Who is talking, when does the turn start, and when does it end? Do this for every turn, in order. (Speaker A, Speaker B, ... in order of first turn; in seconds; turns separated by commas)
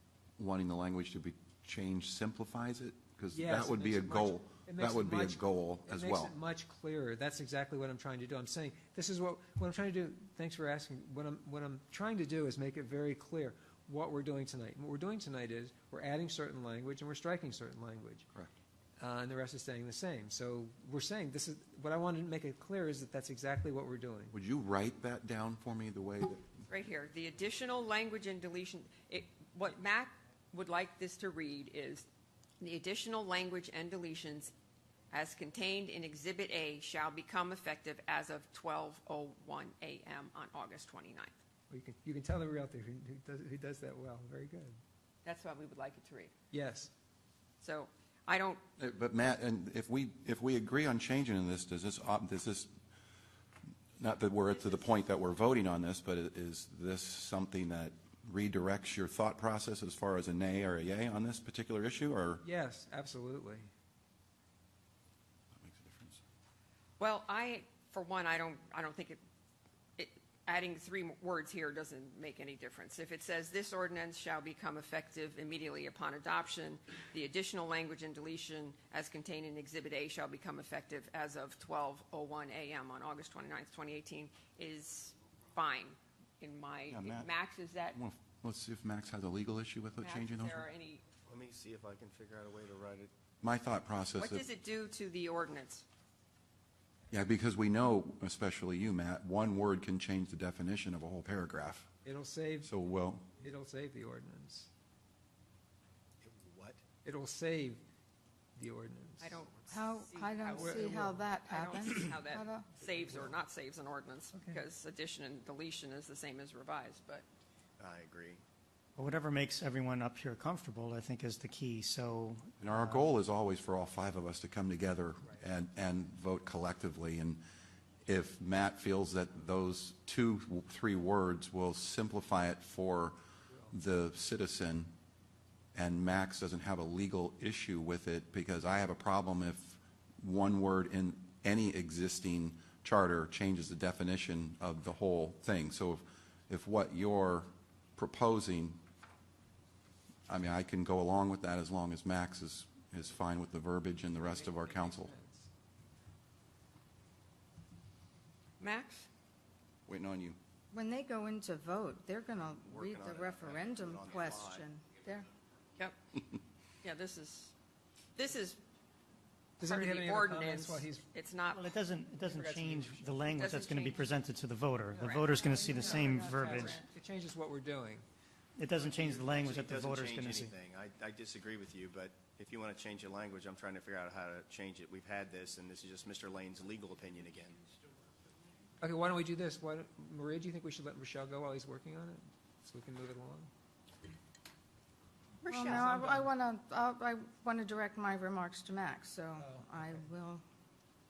Speaker A: 0.4-6.3, Speaker B: 3.3-18.3, Speaker B: 19.0-24.4, Speaker A: 24.3-26.6, Speaker C: 26.7-32.0, Speaker C: 32.6-34.5, Speaker C: 35.1-41.3, Speaker B: 41.7-44.8, Speaker C: 45.2-46.3, Speaker B: 46.5-46.9, Speaker C: 47.6-48.6, Speaker A: 48.8-52.7, Speaker A: 54.0-62.4, Speaker C: 54.5-54.8, Speaker B: 62.4-63.7, Speaker A: 65.5-66.2, Speaker C: 67.0-69.2, Speaker C: 70.0-88.0, Speaker A: 86.9-87.3, Speaker A: 87.9-90.7, Speaker C: 90.0-91.0, Speaker D: 91.3-93.1, Speaker A: 93.4-94.5, Speaker C: 94.2-95.8, Speaker A: 97.1-101.9, Speaker B: 102.0-102.7, Speaker A: 102.6-103.2, Speaker B: 103.4-104.7, Speaker D: 106.2-106.8, Speaker B: 107.0-107.8, Speaker B: 108.5-109.5, Speaker C: 109.2-117.2, Speaker E: 109.7-112.7, Speaker B: 110.5-111.3, Speaker B: 112.8-113.3, Speaker B: 114.3-114.6, Speaker D: 117.8-118.4, Speaker F: 119.0-123.0, Speaker A: 122.6-127.4, Speaker A: 128.1-133.2, Speaker B: 133.5-133.7, Speaker A: 133.7-134.9, Speaker A: 135.7-148.8, Speaker A: 150.3-155.1, Speaker B: 154.1-155.5, Speaker C: 158.6-159.1, Speaker A: 159.9-160.4, Speaker E: 160.7-165.3, Speaker D: 162.6-164.7, Speaker C: 166.8-167.5, Speaker C: 168.2-168.6, Speaker B: 169.6-171.1, Speaker C: 169.6-171.7, Speaker F: 171.5-176.8, Speaker B: 172.2-173.3, Speaker C: 173.3-174.1, Speaker C: 174.9-175.4, Speaker E: 175.3-176.8, Speaker B: 175.7-178.0, Speaker F: 178.6-180.5, Speaker D: 178.8-187.6, Speaker B: 188.8-193.5, Speaker C: 195.4-195.9, Speaker E: 195.5-200.4, Speaker B: 195.6-196.3, Speaker B: 199.4-200.1